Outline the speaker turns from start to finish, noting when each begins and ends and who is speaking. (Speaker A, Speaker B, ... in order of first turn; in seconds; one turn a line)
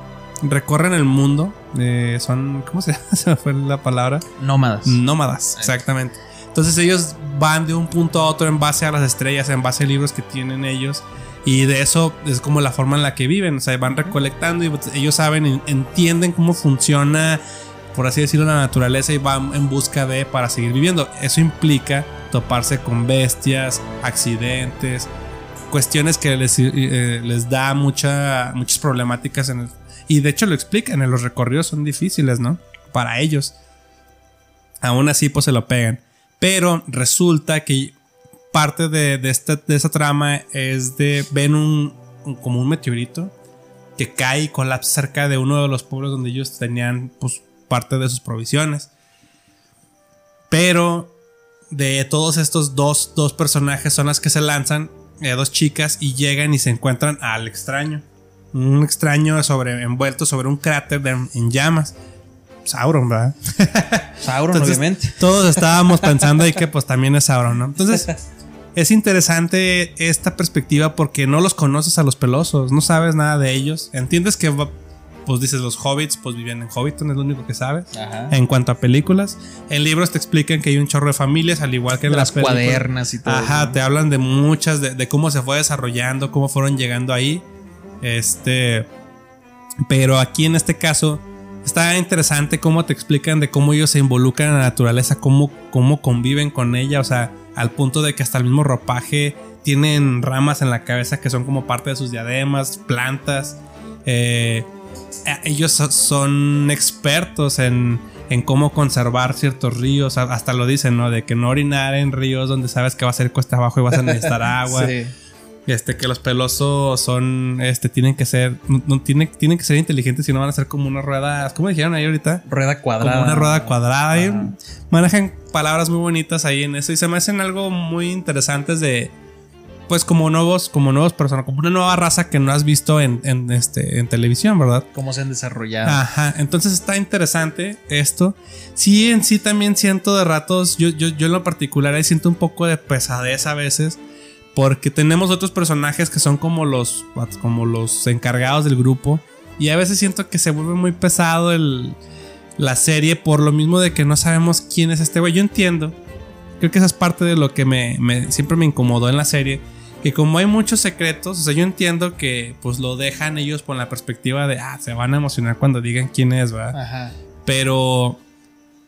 Speaker A: 0.4-4.2
Speaker B: 4.4-5.0
Speaker A: 4.8-17.4
Speaker B: 13.9-14.2
Speaker A: 17.9-25.1
Speaker A: 25.7-33.5
Speaker A: 34.8-37.9
Speaker A: 38.5-43.3
Speaker A: 44.0-48.9
Speaker A: 50.5-51.1
Speaker A: 51.7-61.9
Speaker A: 62.6-68.1
Speaker B: 64.2-65.2
Speaker B: 65.9-66.3
Speaker B: 67.9-68.2
Speaker A: 68.7-74.7
Speaker A: 75.2-87.4
Speaker B: 77.9-78.3
Speaker B: 82.0-83.8
Speaker A: 88.0-88.9
Speaker A: 89.8-104.7
Speaker A: 105.2-114.9
Speaker B: 113.9-115.1
Speaker A: 115.7-122.4
Speaker B: 122.5-124.5
Speaker A: 123.0-129.1
Speaker A: 129.9-134.9
Speaker B: 134.9-136.0
Speaker A: 135.8-144.0
Speaker A: 144.5-152.0
Speaker A: 152.6-155.9
Speaker A: 156.6-166.8
Speaker B: 166.7-167.1
Speaker A: 167.4-168.2